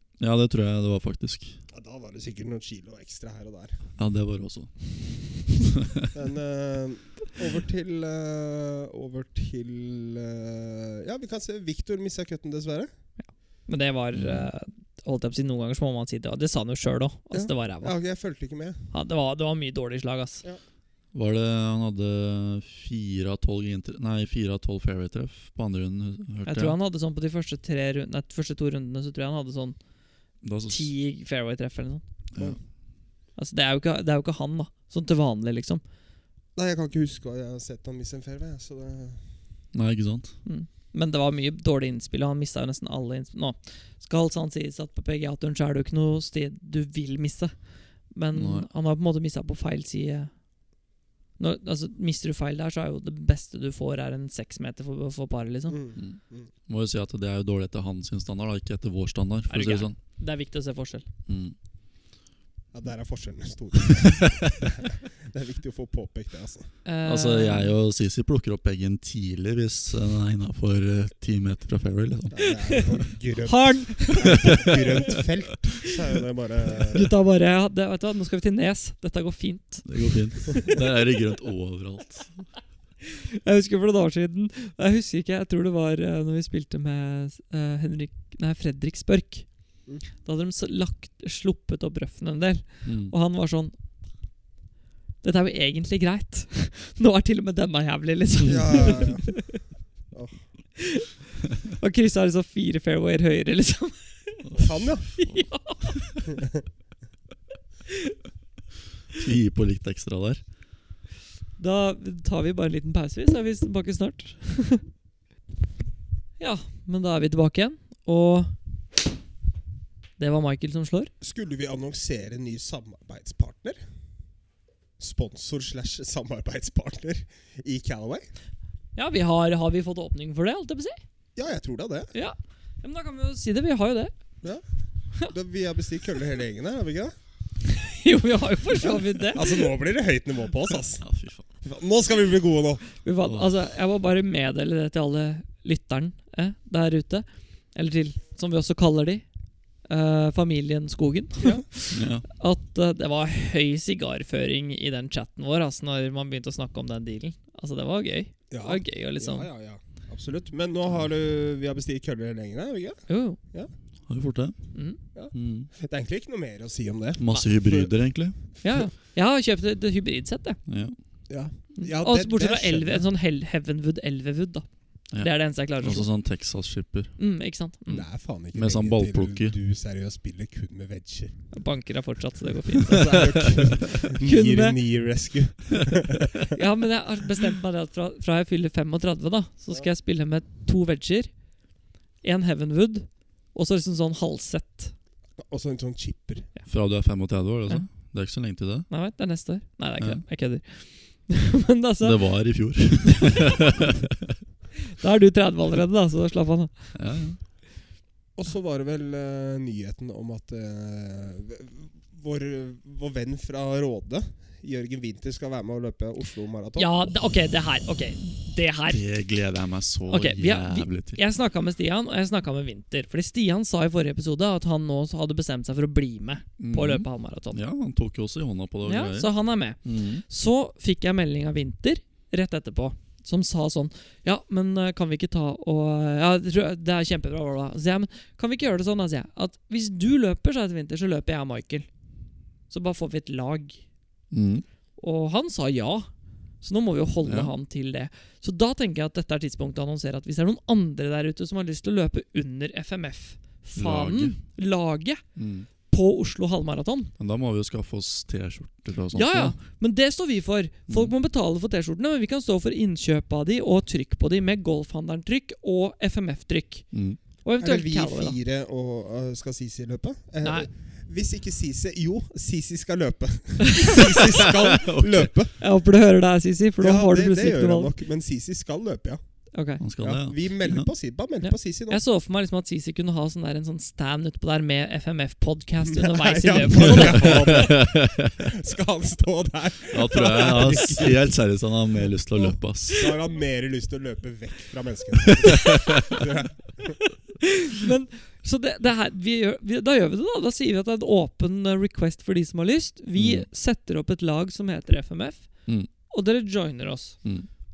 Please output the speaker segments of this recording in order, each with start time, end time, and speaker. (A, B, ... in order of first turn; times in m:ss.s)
0:00.2-0:01.6 A
0:01.7-0:03.8 B
0:04.0-0:06.0 A
0:06.1-0:12.9 B
0:13.2-0:17.9 C
0:14.1-0:14.5 A
0:17.3-0:18.9 B
0:18.9-0:20.4 C
0:21.1-0:26.8 A
0:26.4-0:29.8 C
0:30.4-0:30.9 A
0:30.7-0:32.0 C
0:32.3-0:32.6 A
0:33.4-0:35.8 C
0:36.5-0:39.2 B
0:39.7-0:40.3 A
0:40.4-0:47.5 C
0:48.1-0:50.3 C
0:48.3-0:48.7 A
0:51.4-0:55.8 C
0:55.7-0:56.5 B
0:56.0-1:00.0 A
0:59.5-1:01.0 C
1:01.3-1:01.5 A
1:02.7-1:06.7 B
1:04.0-1:04.5 A
1:06.8-1:07.7 C
1:07.0-1:12.9 A
1:12.3-1:17.1 B
1:12.4-1:12.8 C
1:13.4-1:14.7 C
1:14.2-1:14.9 A
1:16.9-1:20.7 C
1:19.8-1:22.5 A
1:23.1-1:29.5 C
1:30.2-1:33.7 C
1:32.8-1:33.1 A
1:35.2-1:39.6 C
1:38.4-1:39.5 B
1:40.1-1:40.4 B
1:40.8-1:41.1 C
1:41.7-1:44.4 C
1:44.4-1:45.9 A
1:44.6-1:45.1 B
1:45.2-1:46.0 C
1:49.1-1:50.4 A
1:51.6-1:54.8 C
1:56.4-1:58.5 C
2:00.2-2:01.1 C
2:01.2-2:03.8 B
2:05.0-2:08.3 B
2:08.9-2:11.0 C
2:11.4-2:12.1 B
2:12.1-2:14.1 C
2:15.2-2:17.1 B
2:17.7-2:19.6 C
2:18.8-2:21.0 B
2:21.0-2:21.4 A
2:21.6-2:22.9 B
2:23.0-2:29.2 C
2:23.2-2:23.5 A
2:29.9-2:39.5 C
2:31.4-2:31.6 B
2:31.9-2:32.2 A
2:38.5-2:43.7 B
2:43.1-2:43.4 C
2:44.1-2:44.7 A
2:45.1-2:47.9 B
2:45.3-2:45.7 A
2:47.2-2:48.4 A
2:48.6-2:48.9 B
2:48.6-2:50.6 C
2:50.7-2:50.9 A
2:51.3-2:53.1 B
2:51.8-2:56.1 C
2:55.1-2:57.2 A
2:57.2-2:58.0 C
2:57.9-3:01.4 B
2:58.5-2:59.6 A
3:01.5-3:04.8 C
3:02.8-3:06.5 B
3:03.2-3:03.6 A
3:06.5-3:11.4 C
3:12.2-3:14.9 C
3:15.4-3:16.5 B
3:16.7-3:18.9 A
3:18.9-3:22.2 C
3:20.0-3:20.2 A
3:22.0-3:24.0 A
3:23.2-3:23.6 C
3:24.9-3:27.0 C
3:26.9-3:27.4 A
3:28.4-3:37.0 B
3:36.8-3:39.0 C
3:38.9-3:41.2 A
3:40.1-3:47.6 C
3:46.6-3:50.2 A
3:48.8-4:01.9 C
4:02.7-4:03.8 C
4:04.3-4:04.6 A
4:05.0-4:06.1 C
4:06.6-4:15.2 C
4:07.2-4:07.5 A
4:13.8-4:14.4 A
4:15.4-4:15.7 A
4:15.9-4:17.1 C
4:17.2-4:19.6 A
4:19.1-4:26.9 C
4:26.9-4:27.2 A
4:27.4-4:28.4 C
4:27.6-4:35.6 B
4:30.4-4:30.7 C
4:33.6-4:34.0 C
4:34.1-4:35.3 A
4:35.6-4:37.9 C
4:36.8-4:39.2 B
4:39.5-4:39.8 C
4:39.8-4:40.9 A
4:40.0-4:42.0 B
4:41.4-4:47.5 C
4:45.8-4:51.4 B
4:46.9-4:48.4 A
4:49.9-4:53.0 A
4:50.2-4:50.9 C
4:52.9-4:57.0 B
4:55.4-4:56.2 A
4:57.6-5:05.5 C
5:03.2-5:03.5 A
5:06.0-5:07.2 C